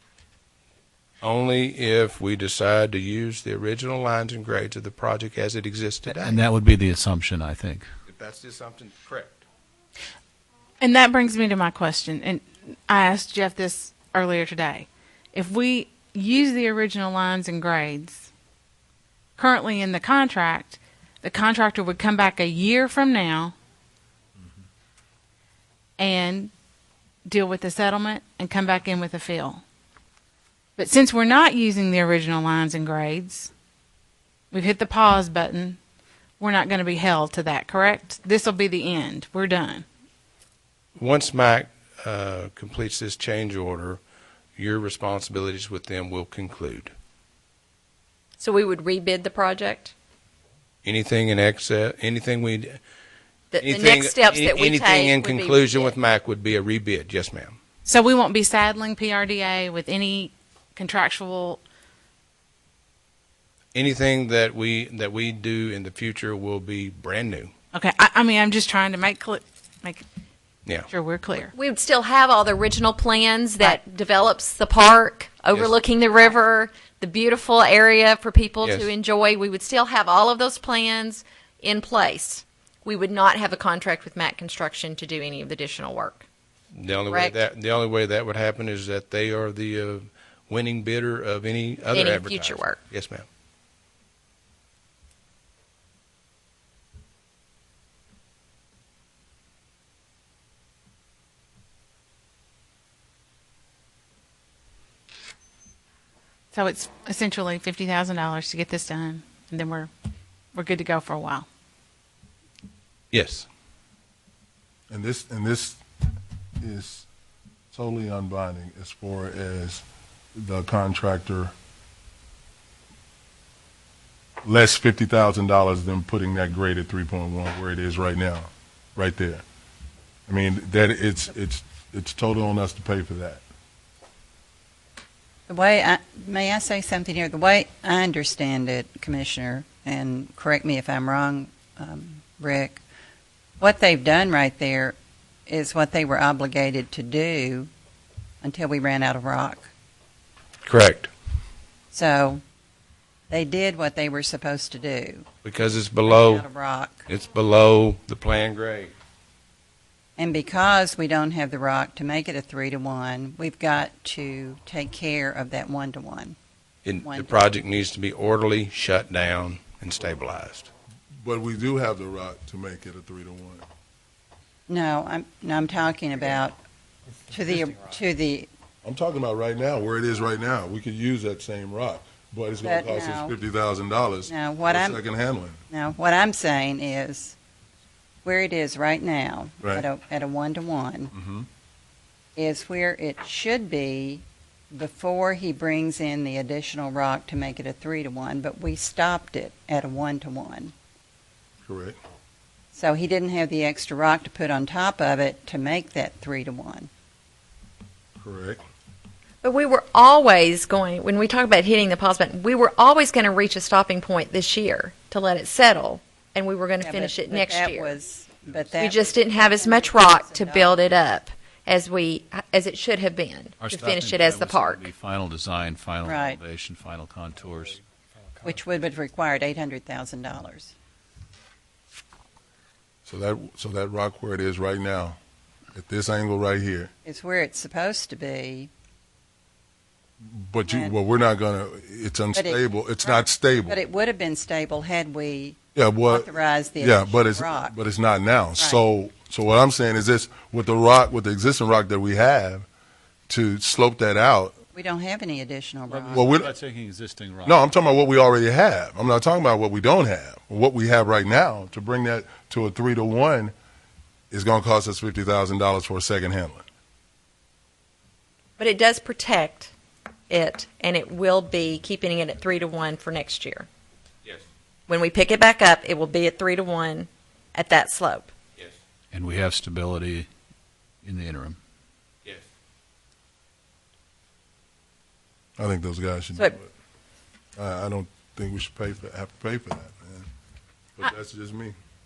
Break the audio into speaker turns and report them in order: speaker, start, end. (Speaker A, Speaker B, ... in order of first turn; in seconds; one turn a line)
Speaker A: 1.2-6.4
Speaker B: 6.2-7.9
Speaker A: 8.1-9.4
Speaker C: 10.8-18.3
Speaker C: 19.4-23.5
Speaker C: 26.0-26.5
Speaker C: 27.3-29.6
Speaker C: 30.8-33.5
Speaker C: 34.5-35.8
Speaker C: 36.4-39.8
Speaker A: 41.0-44.0
Speaker A: 44.6-46.9
Speaker D: 48.4-49.9
Speaker A: 50.8-52.8
Speaker D: 53.5-56.0
Speaker A: 53.6-57.6
Speaker C: 57.9-61.6
Speaker A: 63.8-67.5
Speaker C: 67.7-70.0
Speaker C: 70.9-71.5
Speaker D: 71.5-86.3
Speaker A: 78.6-78.9
Speaker A: 86.7-93.3
Speaker D: 87.1-87.4
Speaker D: 91.9-92.8
Speaker C: 106.5-109.9
Speaker C: 110.5-111.5
Speaker A: 113.1-113.5
Speaker E: 114.9-115.8
Speaker E: 116.6-117.1
Speaker E: 117.7-121.5
Speaker E: 124.4-129.4
Speaker E: 130.3-133.4
Speaker F: 135.5-142.8
Speaker F: 143.6-144.9
Speaker F: 145.5-147.7
Speaker F: 148.4-149.7
Speaker A: 150.6-151.1
Speaker F: 151.9-152.4
Speaker F: 153.3-155.3
Speaker A: 155.4-156.5
Speaker F: 156.1-157.1
Speaker A: 157.1-158.9
Speaker F: 160.2-166.4
Speaker A: 166.8-170.7
Speaker F: 167.0-167.4
Speaker E: 171.2-173.7
Speaker F: 174.7-176.6
Speaker F: 177.3-178.5
Speaker E: 178.8-185.6
Speaker F: 182.6-183.3
Speaker F: 184.3-185.0
Speaker F: 185.7-187.3
Speaker F: 188.2-191.1
Speaker E: 191.1-191.5
Speaker F: 192.4-200.7
Speaker E: 201.7-202.0
Speaker F: 202.7-206.9
Speaker E: 208.2-208.6
Speaker D: 209.4-218.0
Speaker F: 216.8-220.8
Speaker D: 218.8-224.9
Speaker B: 223.6-227.8
Speaker F: 226.0-226.4
Speaker F: 228.4-230.7
Speaker E: 233.1-235.2
Speaker E: 235.7-236.9
Speaker F: 237.0-238.7
Speaker E: 240.2-243.8
Speaker F: 240.7-240.9
Speaker F: 242.3-245.6
Speaker E: 245.8-252.7
Speaker F: 246.1-247.7
Speaker E: 253.3-254.6
Speaker F: 254.7-256.4
Speaker B: 255.9-257.6
Speaker E: 256.1-256.5
Speaker E: 257.4-263.5
Speaker E: 264.3-266.7
Speaker D: 268.6-269.7
Speaker D: 270.3-273.7
Speaker D: 274.9-278.3
Speaker B: 279.1-280.3
Speaker B: 281.0-281.6
Speaker E: 285.6-286.7
Speaker E: 287.6-290.3
Speaker E: 291.0-291.8